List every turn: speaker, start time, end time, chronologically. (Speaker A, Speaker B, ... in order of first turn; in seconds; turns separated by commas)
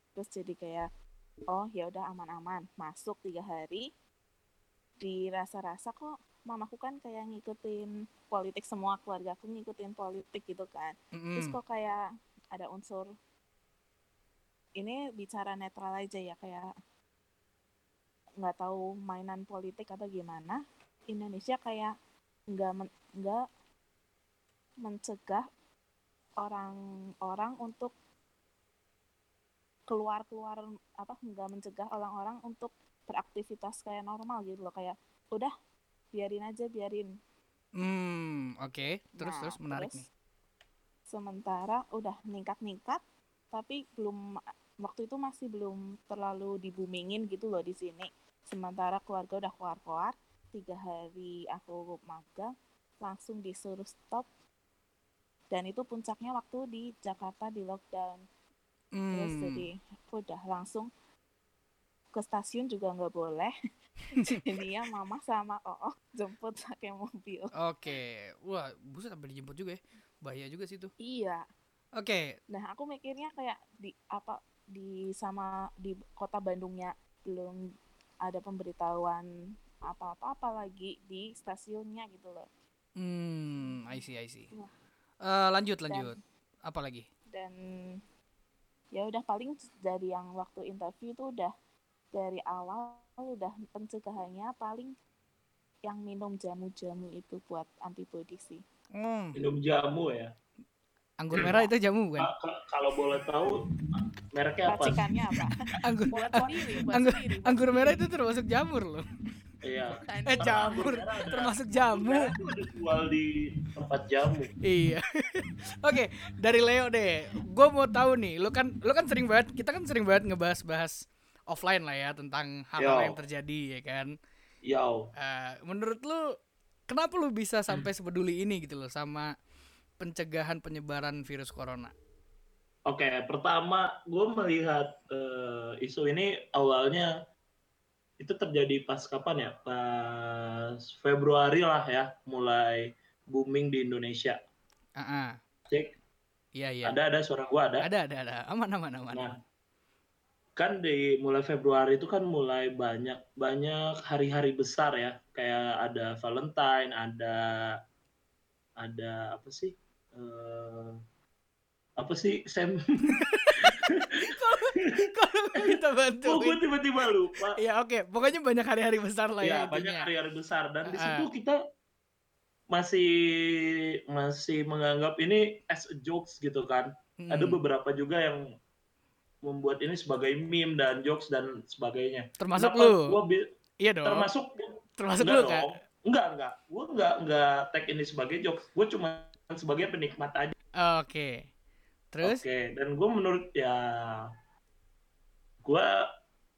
Speaker A: 0.1-0.9, Speaker A: 1.5-3.9, Speaker A: 5.0-13.1, Speaker B: 11.2-11.6, Speaker A: 14.8-16.7, Speaker A: 18.4-21.9, Speaker A: 22.5-23.4, Speaker A: 24.8-25.4, Speaker A: 26.4-27.9, Speaker A: 29.9-35.5, Speaker A: 36.1-37.1, Speaker B: 37.8-40.0, Speaker A: 39.2-40.1, Speaker A: 41.1-43.0, Speaker A: 43.5-44.2, Speaker A: 44.8-54.2, Speaker A: 55.5-58.2, Speaker B: 58.9-59.6, Speaker A: 59.1-60.9, Speaker A: 62.1-63.5, Speaker B: 64.1-64.4, Speaker A: 64.1-67.5, Speaker B: 67.6-70.9, Speaker A: 71.0-71.4, Speaker B: 72.0-72.4, Speaker A: 72.5-77.6, Speaker A: 78.2-79.3, Speaker A: 79.8-82.5, Speaker B: 83.0-84.5, Speaker B: 85.2-87.0, Speaker A: 85.9-86.2, Speaker A: 87.3-88.0, Speaker A: 88.9-91.5, Speaker A: 92.1-94.9, Speaker A: 95.8-98.6, Speaker B: 99.0-99.3, Speaker C: 99.3-100.3, Speaker B: 101.2-102.3, Speaker C: 102.2-105.0, Speaker A: 104.7-105.5, Speaker B: 105.8-109.0, Speaker A: 106.1-108.0, Speaker C: 109.6-114.5, Speaker A: 110.0-110.8, Speaker B: 110.2-112.3, Speaker B: 114.6-121.0, Speaker B: 121.5-124.1, Speaker C: 122.8-123.2, Speaker C: 124.7-125.1, Speaker B: 125.2-126.2, Speaker B: 126.9-129.3, Speaker B: 130.0-131.9, Speaker C: 132.9-137.1, Speaker C: 138.2-144.4, Speaker B: 145.0-145.4, Speaker B: 146.6-146.9, Speaker C: 146.8-147.8, Speaker B: 147.8-149.3, Speaker C: 150.6-157.8, Speaker C: 158.8-161.0, Speaker C: 162.0-164.1, Speaker B: 163.2-166.6, Speaker C: 166.2-167.6, Speaker B: 167.6-170.1, Speaker C: 169.4-171.6, Speaker B: 170.9-171.3, Speaker C: 172.7-178.4, Speaker B: 177.2-177.6, Speaker C: 179.4-183.4, Speaker B: 182.4-183.1, Speaker B: 183.8-184.3, Speaker C: 184.0-190.5, Speaker B: 185.0-185.7, Speaker B: 190.8-191.5, Speaker B: 192.1-192.4, Speaker C: 192.2-194.3, Speaker C: 195.6-196.1